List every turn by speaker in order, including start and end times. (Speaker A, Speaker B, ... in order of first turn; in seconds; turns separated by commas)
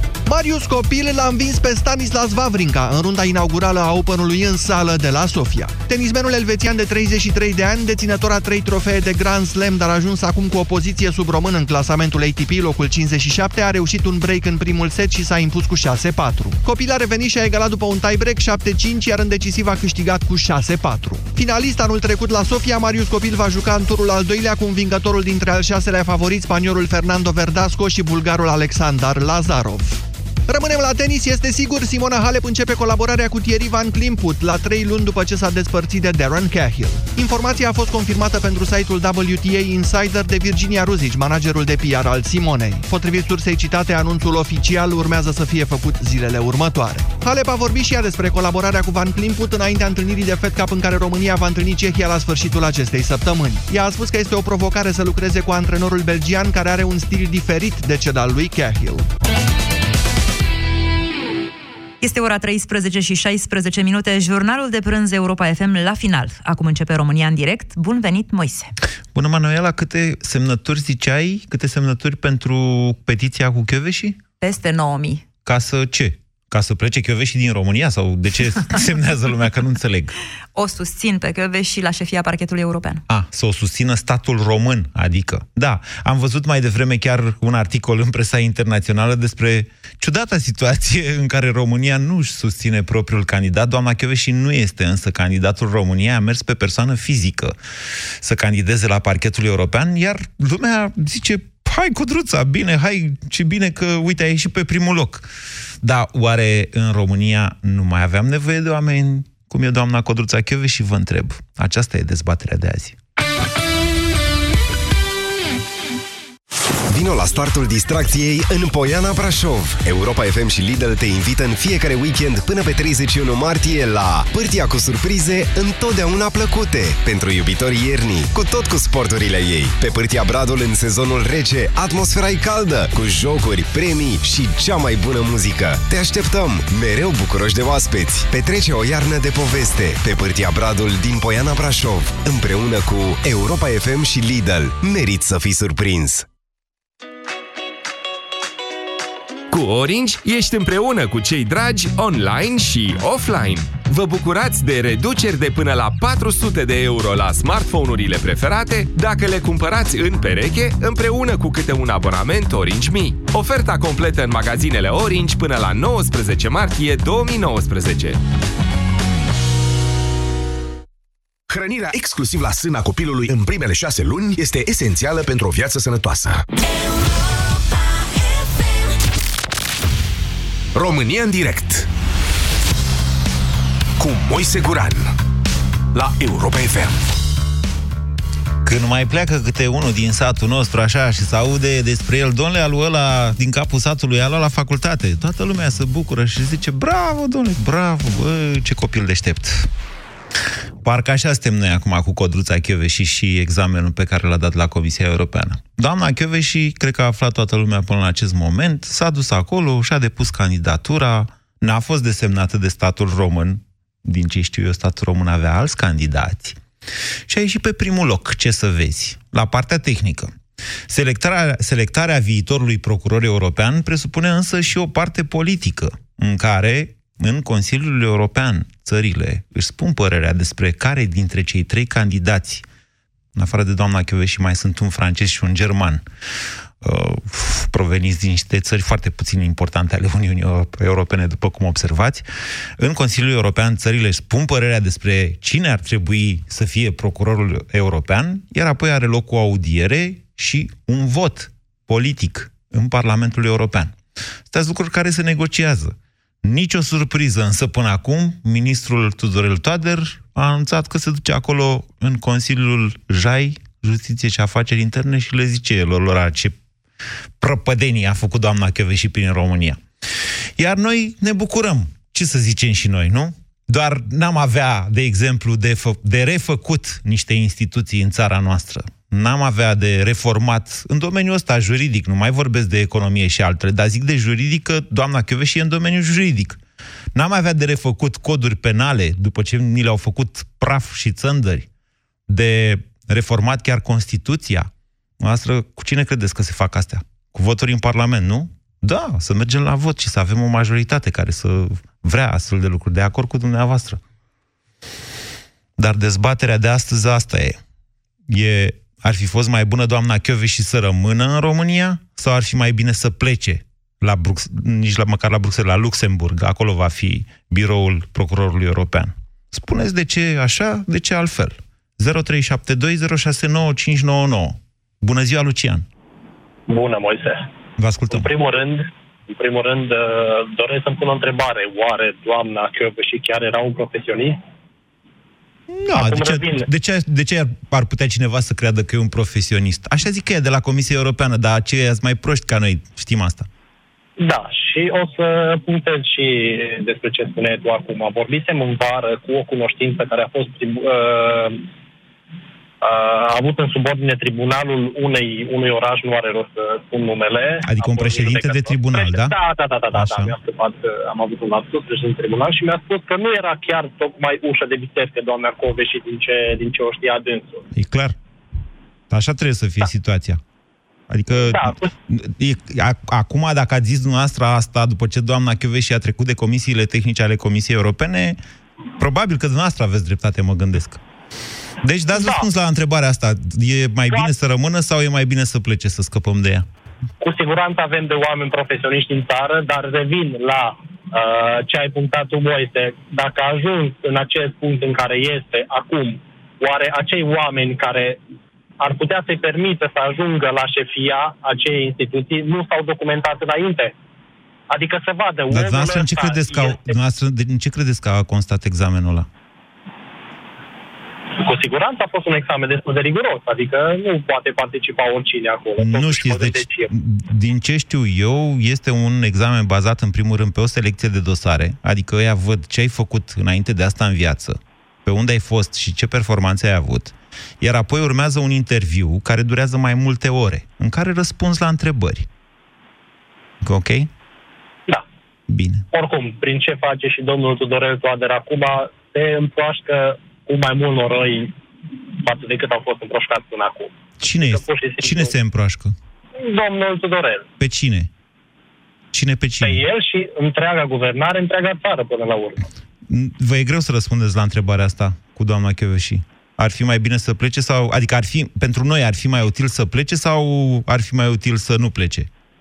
Speaker A: 0.3-59.0, Speaker B: 62.0-68.7, Speaker C: 69.1-74.2, Speaker B: 74.4-75.3, Speaker C: 75.5-80.2, Speaker B: 80.5-83.0, Speaker C: 83.1-97.6, Speaker C: 98.2-105.3, Speaker C: 105.8-113.0, Speaker D: 116.9-146.3, Speaker E: 149.5-168.2, Speaker F: 171.5-176.4, Speaker F: 180.8-181.9, Speaker F: 184.0-185.1, Speaker F: 185.9-187.0, Speaker C: 188.6-199.7, Speaker C: 200.8-216.6, Speaker C: 217.3-220.3, Speaker C: 220.9-232.7, Speaker C: 233.3-236.0, Speaker C: 236.8-242.3, Speaker C: 242.8-254.0, Speaker C: 254.5-266.6, Speaker C: 267.4-269.8, Speaker C: 270.6-286.6, Speaker C: 287.1-291.7, Speaker C: 292.3-294.7, Speaker C: 295.2-304.0, Speaker C: 305.8-307.6, Speaker C: 308.3-325.9, Speaker G: 326.7-327.5, Speaker C: 327.8-328.3, Speaker G: 328.1-334.4, Speaker C: 335.7-343.5, Speaker G: 335.9-336.7, Speaker G: 344.2-351.6, Speaker G: 352.8-367.6, Speaker C: 357.6-359.4, Speaker C: 359.9-360.4, Speaker C: 367.7-368.1, Speaker C: 369.1-370.4, Speaker C: 371.1-378.4, Speaker G: 371.4-371.9, Speaker C: 379.0-381.0, Speaker C: 381.8-386.7, Speaker G: 382.1-382.4, Speaker G: 387.2-398.2, Speaker G: 398.8-403.9, Speaker G: 404.7-406.9, Speaker C: 405.5-409.3, Speaker G: 411.3-416.9, Speaker C: 415.8-432.3, Speaker C: 433.6-434.1, Speaker C: 435.5-435.9, Speaker G: 435.9-441.5, Speaker G: 442.2-445.3, Speaker C: 444.2-445.9, Speaker G: 446.4-447.4, Speaker C: 447.6-448.1, Speaker C: 449.1-449.8, Speaker G: 449.6-452.7, Speaker C: 453.1-462.3